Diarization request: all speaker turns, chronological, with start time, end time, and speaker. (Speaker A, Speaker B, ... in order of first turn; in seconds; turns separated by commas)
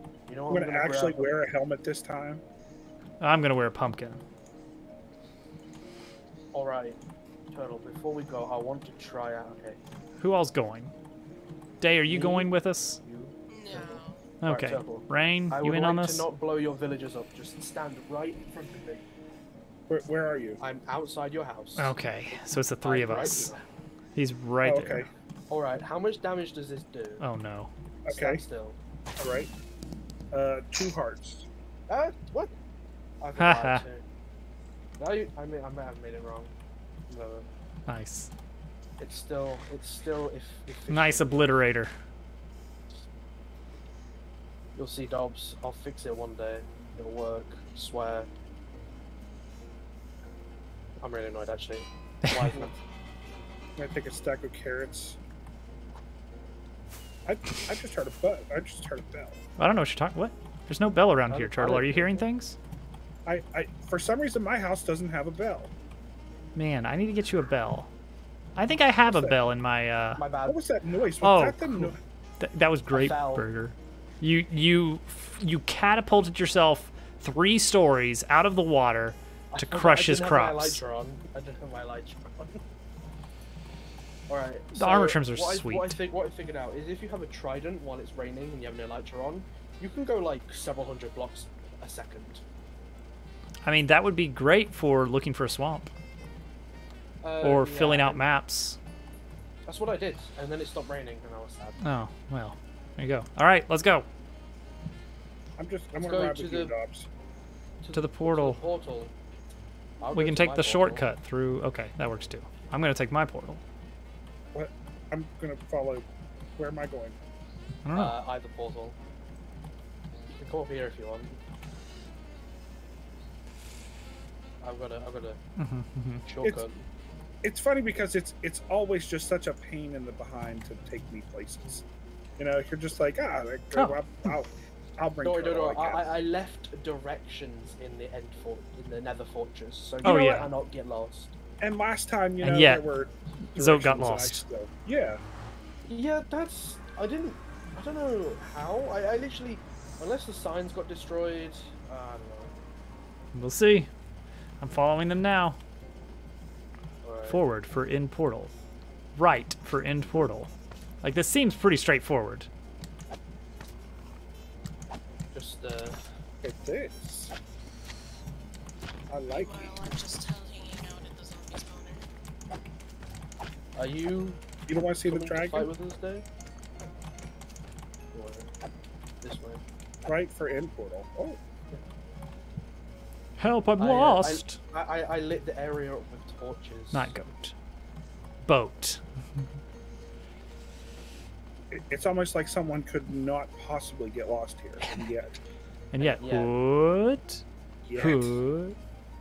Speaker A: 0.3-1.4, Speaker B: 0.5-2.4, Speaker C: 3.2-4.2, Speaker A: 6.5-7.0, Speaker A: 7.5-9.8, Speaker C: 10.2-10.9, Speaker C: 11.8-13.0, Speaker A: 12.1-12.5, Speaker A: 13.0-19.0, Speaker D: 13.5-14.3, Speaker C: 14.4-16.3, Speaker B: 19.9-20.6, Speaker A: 20.6-21.9, Speaker C: 21.8-23.5, Speaker A: 22.8-23.6, Speaker C: 24.2-25.1, Speaker B: 24.6-25.1, Speaker A: 25.5-27.2, Speaker C: 27.2-27.7, Speaker B: 28.1-28.4, Speaker A: 28.1-28.8, Speaker B: 29.2-29.5, Speaker B: 30.3-31.5, Speaker A: 31.9-32.5, Speaker A: 33.2-34.0, Speaker C: 33.4-33.8, Speaker A: 35.0-36.5, Speaker A: 37.1-37.5, Speaker C: 37.9-38.3, Speaker A: 39.0-41.5, Speaker C: 40.9-41.9, Speaker A: 44.8-48.3, Speaker A: 51.0-52.7, Speaker C: 52.3-52.5, Speaker B: 53.8-55.2, Speaker B: 57.3-59.4, Speaker C: 59.6-62.6, Speaker A: 61.3-62.2, Speaker B: 63.3-65.7, Speaker C: 66.5-67.9, Speaker C: 68.6-70.2, Speaker B: 69.0-69.4, Speaker A: 70.2-70.6, Speaker B: 70.5-72.0, Speaker C: 71.2-80.8, Speaker A: 72.9-73.5, Speaker A: 79.5-82.6, Speaker A: 84.3-92.4, Speaker C: 84.8-86.0, Speaker C: 93.6-95.9, Speaker A: 97.2-98.2, Speaker C: 97.4-98.8, Speaker A: 99.7-101.8, Speaker C: 101.8-104.1, Speaker B: 105.6-107.1, Speaker A: 105.9-106.8, Speaker A: 107.8-109.1, Speaker C: 107.9-108.6, Speaker A: 110.0-111.1, Speaker C: 110.1-113.6, Speaker B: 114.5-117.2, Speaker C: 117.8-118.2, Speaker A: 117.9-119.0, Speaker A: 120.3-121.4, Speaker A: 124.6-125.4, Speaker C: 125.6-126.2, Speaker A: 126.2-126.9, Speaker B: 127.4-131.8, Speaker B: 132.4-136.1, Speaker C: 133.7-134.3, Speaker A: 135.2-141.3, Speaker C: 140.0-140.5, Speaker B: 141.6-145.2, Speaker C: 142.4-142.8, Speaker C: 143.5-144.4, Speaker A: 145.9-152.5, Speaker C: 153.3-153.9, Speaker C: 154.6-155.6, Speaker A: 157.0-157.4, Speaker C: 157.3-158.5, Speaker C: 159.2-160.5, Speaker C: 161.0-162.5, Speaker A: 165.3-166.0, Speaker B: 166.4-167.3, Speaker B: 169.1-169.8, Speaker D: 169.3-172.1, Speaker A: 173.8-174.4, Speaker B: 174.7-175.7, Speaker A: 175.1-176.2, Speaker A: 178.1-178.5, Speaker A: 179.2-179.6, Speaker B: 180.1-181.4, Speaker C: 183.4-184.6, Speaker A: 183.8-187.1, Speaker C: 186.9-187.6, Speaker C: 188.4-189.4, Speaker B: 191.7-195.4, Speaker C: 194.8-195.1, Speaker C: 195.9-197.4, Speaker A: 196.0-196.5, Speaker B: 197.8-198.4, Speaker C: 198.0-198.8